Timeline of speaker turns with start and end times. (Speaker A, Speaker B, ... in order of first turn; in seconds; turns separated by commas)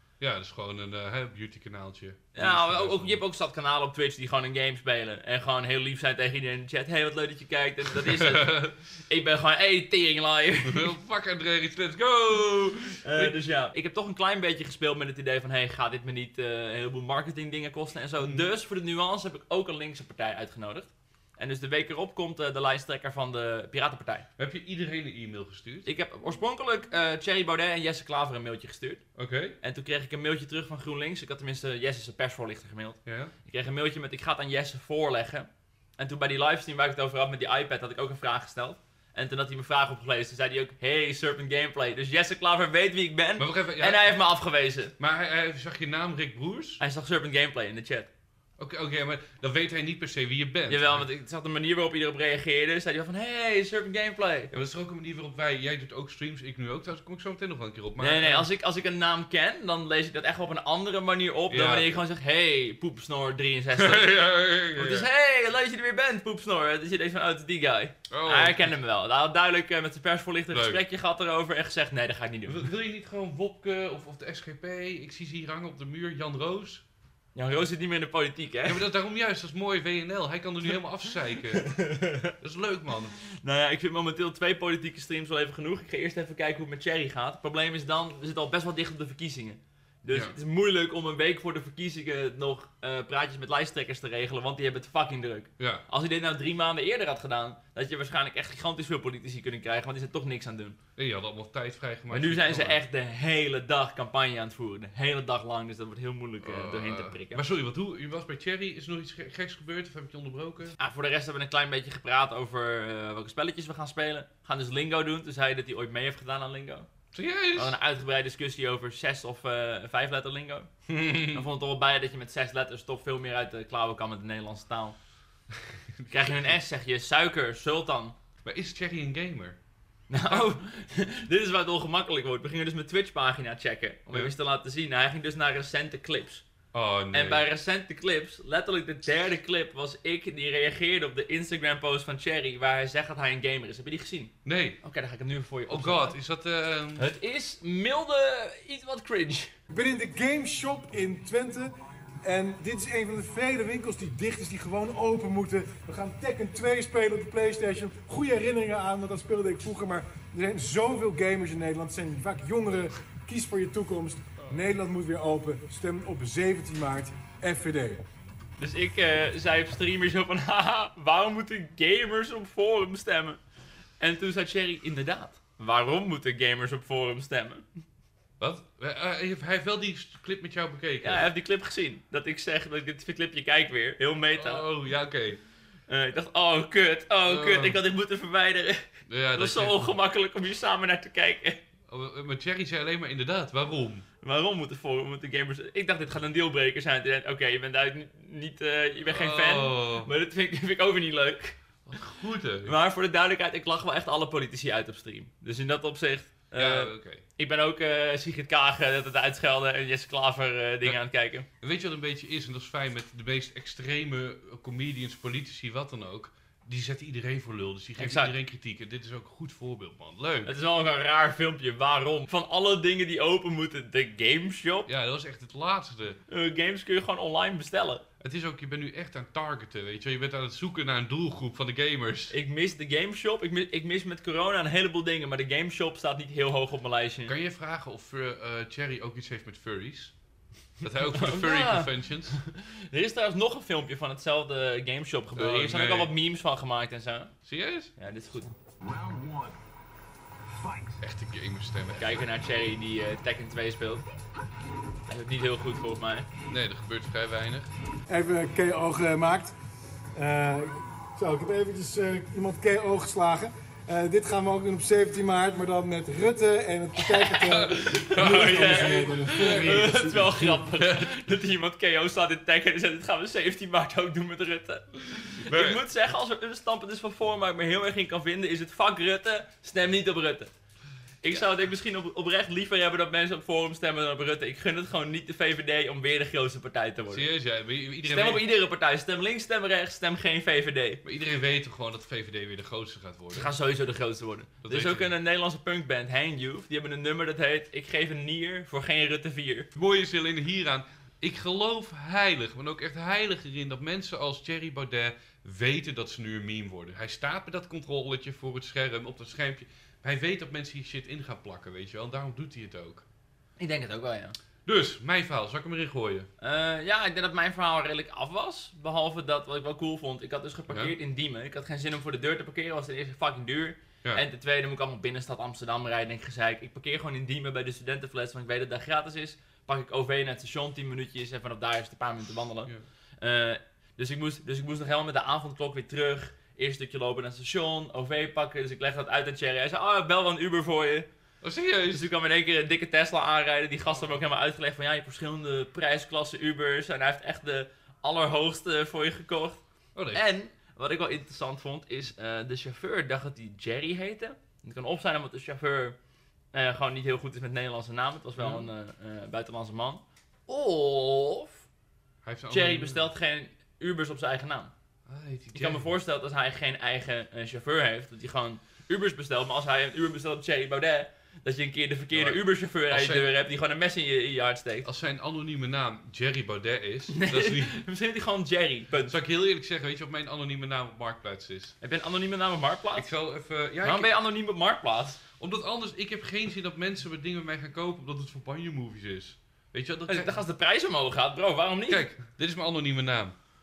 Speaker A: 0.2-3.2, Speaker B: 2.3-10.9, Speaker A: 7.9-8.7, Speaker A: 10.7-13.4, Speaker B: 13.0-24.3, Speaker A: 18.2-18.4, Speaker A: 24.4-25.9, Speaker B: 25.8-29.0, Speaker A: 29.1-29.6, Speaker B: 29.6-44.9, Speaker A: 33.0-33.3, Speaker A: 43.4-44.1, Speaker A: 45.0-46.8, Speaker B: 46.8-48.1, Speaker A: 48.6-51.0, Speaker B: 50.7-54.5, Speaker A: 54.5-58.5, Speaker B: 58.0-72.7, Speaker A: 61.5-62.0, Speaker A: 63.7-65.1, Speaker A: 68.1-68.7, Speaker A: 70.5-70.8, Speaker A: 72.5-76.8, Speaker B: 77.3-78.8, Speaker A: 78.7-81.7, Speaker B: 81.5-82.3, Speaker A: 82.4-83.2, Speaker B: 83.2-100.8, Speaker A: 90.1-90.3, Speaker A: 95.6-95.8, Speaker A: 101.0-102.8, Speaker B: 102.1-107.4, Speaker A: 106.4-110.8, Speaker B: 110.8-116.9, Speaker A: 117.1-117.8, Speaker B: 117.5-120.7, Speaker A: 120.9-121.4, Speaker B: 121.3-125.0, Speaker A: 125.6-126.5, Speaker B: 126.1-128.1, Speaker A: 128.4-129.6, Speaker B: 130.1-136.4, Speaker A: 136.7-137.4, Speaker B: 137.1-146.1, Speaker A: 144.4-144.8, Speaker A: 145.7-147.1, Speaker B: 147.0-149.5, Speaker C: 149.7-168.0, Speaker B: 168.6-173.4, Speaker B: 174.0-177.6, Speaker A: 178.4-181.3, Speaker B: 181.0-184.6, Speaker A: 184.3-185.4, Speaker B: 185.9-188.8, Speaker A: 187.2-187.8, Speaker A: 189.1-189.9, Speaker B: 189.3-191.6, Speaker A: 191.9-194.0, Speaker B: 194.2-201.6, Speaker A: 199.1-200.1, Speaker A: 201.8-202.7, Speaker B: 202.6-211.4, Speaker A: 206.6-207.2, Speaker A: 211.6-220.5, Speaker B: 218.0-218.3, Speaker B: 220.4-224.9, Speaker A: 224.9-226.2, Speaker B: 226.3-228.0, Speaker A: 228.2-232.3, Speaker B: 232.3-237.3, Speaker A: 237.3-240.1, Speaker A: 240.8-242.4, Speaker B: 241.1-247.3, Speaker A: 245.3-246.1, Speaker A: 247.4-247.9, Speaker B: 248.0-248.5, Speaker A: 251.0-252.3, Speaker B: 251.9-254.1, Speaker B: 255.1-256.3, Speaker A: 256.5-257.7, Speaker C: 258.1-259.5, Speaker C: 260.1-270.6, Speaker B: 267.0-267.4, Speaker A: 267.4-270.1, Speaker B: 268.1-280.5, Speaker A: 270.8-271.1, Speaker A: 275.3-275.8, Speaker B: 281.2-287.3, Speaker A: 287.1-288.4, Speaker B: 288.0-291.0, Speaker A: 291.0-293.5, Speaker B: 293.3-299.7, Speaker A: 294.6-295.1, Speaker A: 299.7-313.0, Speaker B: 313.6-314.4, Speaker A: 314.6-316.3, Speaker B: 316.4-341.1, Speaker A: 320.7-320.9, Speaker A: 341.4-342.1, Speaker B: 341.9-349.6, Speaker A: 343.9-344.2, Speaker A: 349.9-350.2, Speaker B: 350.1-355.9, Speaker B: 356.5-361.6, Speaker A: 358.4-358.7, Speaker A: 362.2-363.1, Speaker B: 362.5-364.7, Speaker A: 365.1-365.9, Speaker B: 365.5-374.9, Speaker A: 372.1-373.3, Speaker A: 374.8-377.8, Speaker B: 377.1-379.1, Speaker A: 379.1-381.7, Speaker B: 381.8-383.1, Speaker A: 382.9-384.1, Speaker B: 383.8-385.2, Speaker A: 385.4-390.4, Speaker B: 390.1-392.0, Speaker A: 391.9-393.4